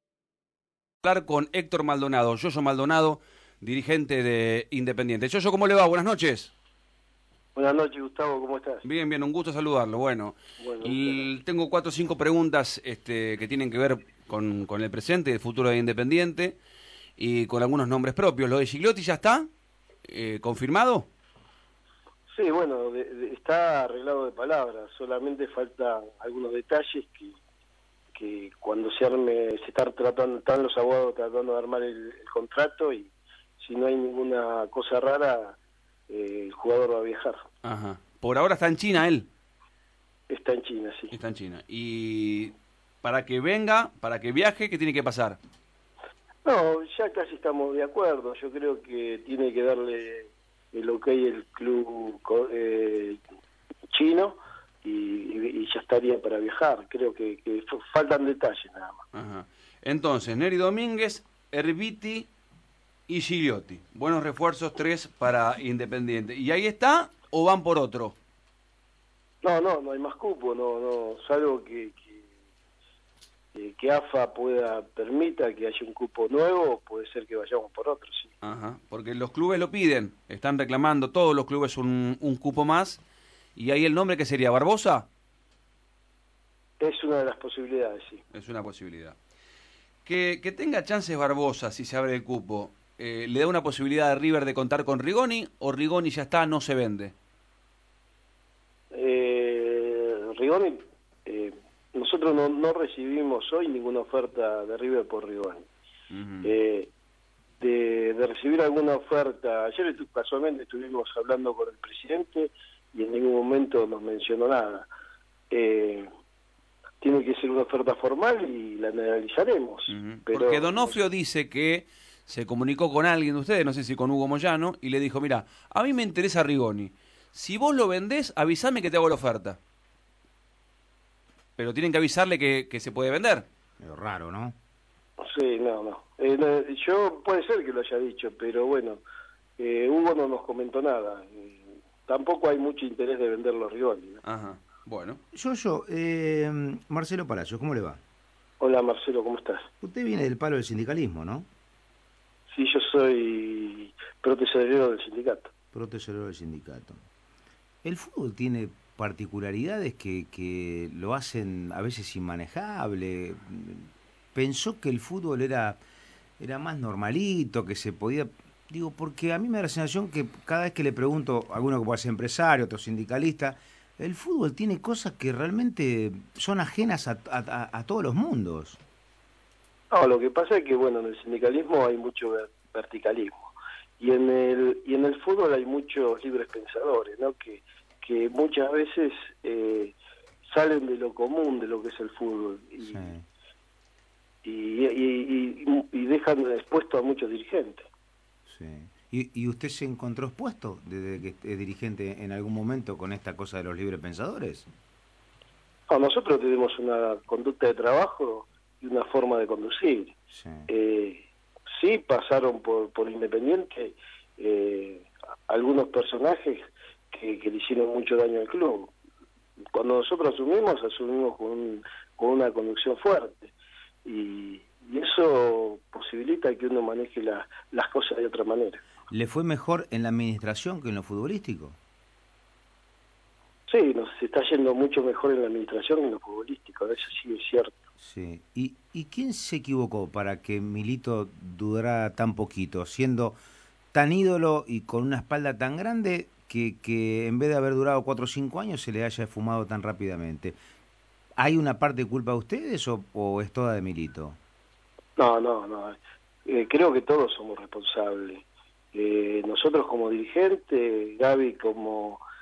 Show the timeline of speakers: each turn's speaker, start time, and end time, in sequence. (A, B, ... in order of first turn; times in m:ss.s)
0:01.0-0:06.5 A
0:07.5-0:08.8 B
0:08.8-0:16.6 A
0:10.6-0:11.3 B
0:17.2-0:19.5 A
0:20.0-0:21.1 A
0:22.3-0:27.4 B
0:28.1-0:35.6 B
0:36.1-0:37.4 B
0:37.6-0:39.3 A
0:40.3-0:41.2 B
0:41.1-0:45.4 A
0:46.4-0:53.2 B
0:53.9-0:59.0 B
0:59.1-1:02.3 A
1:03.1-1:08.2 A
1:09.4-1:12.2 B
1:13.5-1:18.3 B
1:18.4-1:23.0 A
1:23.6-1:25.1 A
1:26.8-1:28.2 B
1:28.3-1:29.2 A
1:30.0-1:37.1 A
1:38.9-1:45.7 B
1:46.1-1:46.5 A
1:46.4-1:46.9 B
1:47.6-1:54.9 B
1:55.5-1:56.1 B
1:57.0-2:01.0 B
1:59.9-2:09.6 A
2:11.6-2:13.4 A
2:13.8-2:14.6 C
2:15.2-2:19.0 B
2:19.6-2:24.2 B
2:24.2-2:25.2 A
2:25.3-2:28.0 C
2:28.6-2:29.7 B
2:29.8-2:31.5 C
2:32.5-2:35.5 B
2:35.7-2:37.0 C
2:37.8-2:45.8 C
2:46.4-2:58.8 C
2:59.9-3:13.1 B
3:12.8-3:13.2 C
3:14.4-3:17.8 B
3:18.4-3:24.7 C
3:25.9-3:30.1 B
3:30.3-3:30.7 C
3:30.7-3:38.9 B
3:39.7-3:43.5 B
3:44.0-3:48.8 B
3:49.1-3:51.8 C
3:53.7-3:57.8 B
3:58.0-4:03.4 C
4:03.9-4:10.6 C
4:11.4-4:14.4 C
4:15.2-4:22.2 B